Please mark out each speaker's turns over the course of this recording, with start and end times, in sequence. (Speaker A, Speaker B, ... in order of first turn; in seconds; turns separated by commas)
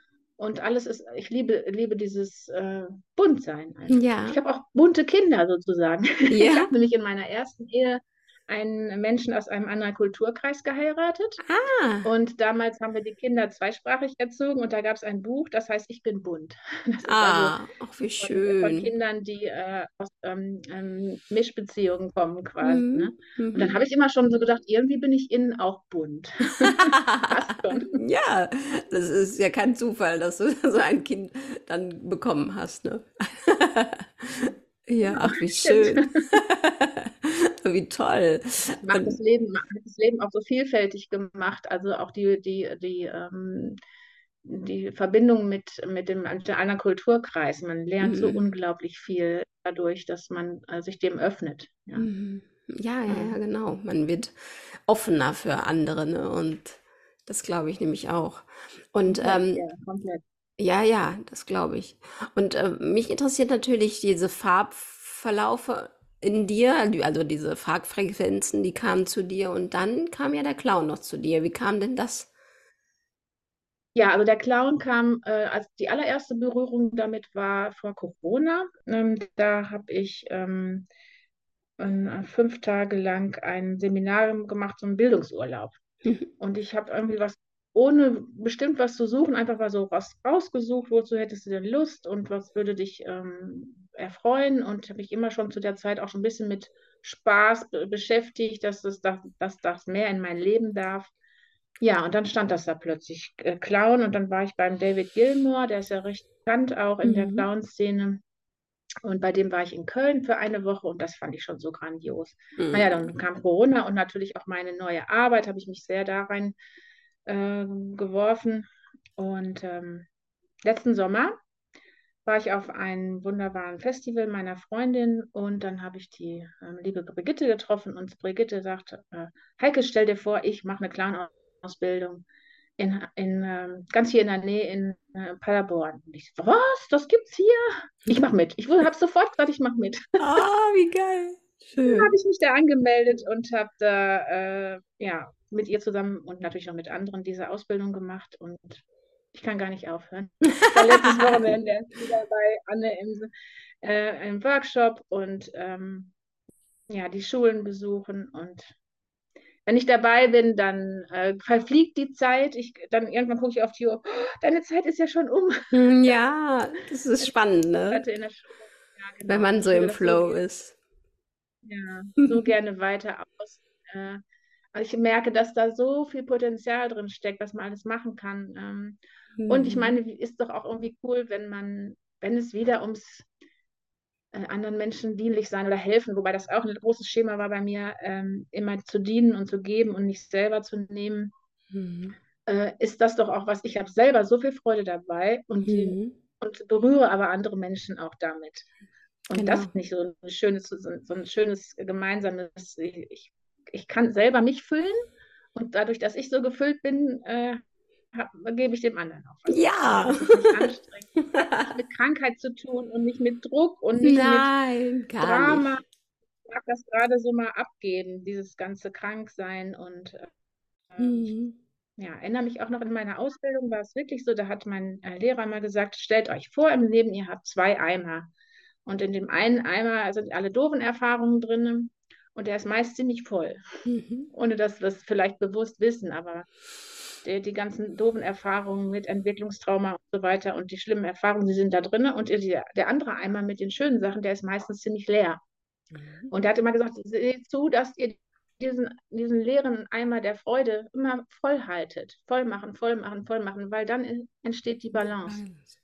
Speaker A: 0.4-11.4, Speaker B: 3.9-4.4, Speaker B: 6.3-6.7, Speaker B: 11.4-12.1, Speaker A: 12.0-17.6, Speaker B: 17.1-18.9, Speaker A: 18.2-28.0, Speaker B: 22.6-23.7, Speaker B: 26.6-39.2, Speaker A: 35.0-36.2, Speaker A: 38.8-43.8, Speaker A: 44.4-52.1, Speaker B: 48.0-48.4, Speaker B: 52.0-59.6, Speaker A: 53.1-53.4, Speaker A: 59.1-60.2, Speaker B: 60.6-72.3, Speaker A: 74.0-80.9, Speaker A: 81.8-85.8, Speaker A: 86.4-101.1, Speaker A: 101.8-108.2, Speaker B: 107.0-107.5, Speaker A: 109.0-116.6, Speaker B: 112.6-112.9, Speaker A: 117.3-120.1, Speaker A: 120.7-121.3, Speaker A: 122.2-132.2, Speaker A: 132.8-140.2, Speaker B: 140.2-142.1, Speaker A: 141.8-156.1, Speaker B: 150.9-151.4, Speaker A: 156.9-158.8, Speaker A: 159.7-166.2, Speaker B: 165.7-168.0, Speaker A: 167.9-170.4, Speaker B: 169.3-170.8, Speaker A: 171.6-174.2, Speaker A: 174.7-183.3, Speaker B: 179.4-180.0, Speaker A: 184.3-191.3, Speaker B: 191.7-192.2, Speaker A: 192.5-198.7, Speaker B: 195.6-196.2, Speaker A: 199.3-207.6, Speaker B: 199.3-199.7, Speaker A: 208.1-214.5, Speaker B: 209.5-210.6, Speaker B: 211.2-211.7, Speaker B: 214.0-215.7, Speaker A: 215.2-215.8, Speaker A: 216.5-220.3, Speaker A: 220.9-221.3, Speaker B: 221.0-221.6, Speaker A: 222.0-228.3, Speaker A: 228.9-233.6, Speaker B: 233.9-234.3, Speaker A: 234.3-236.5, Speaker A: 237.2-245.4, Speaker B: 245.9-246.3, Speaker A: 246.3-255.4, Speaker B: 255.0-255.7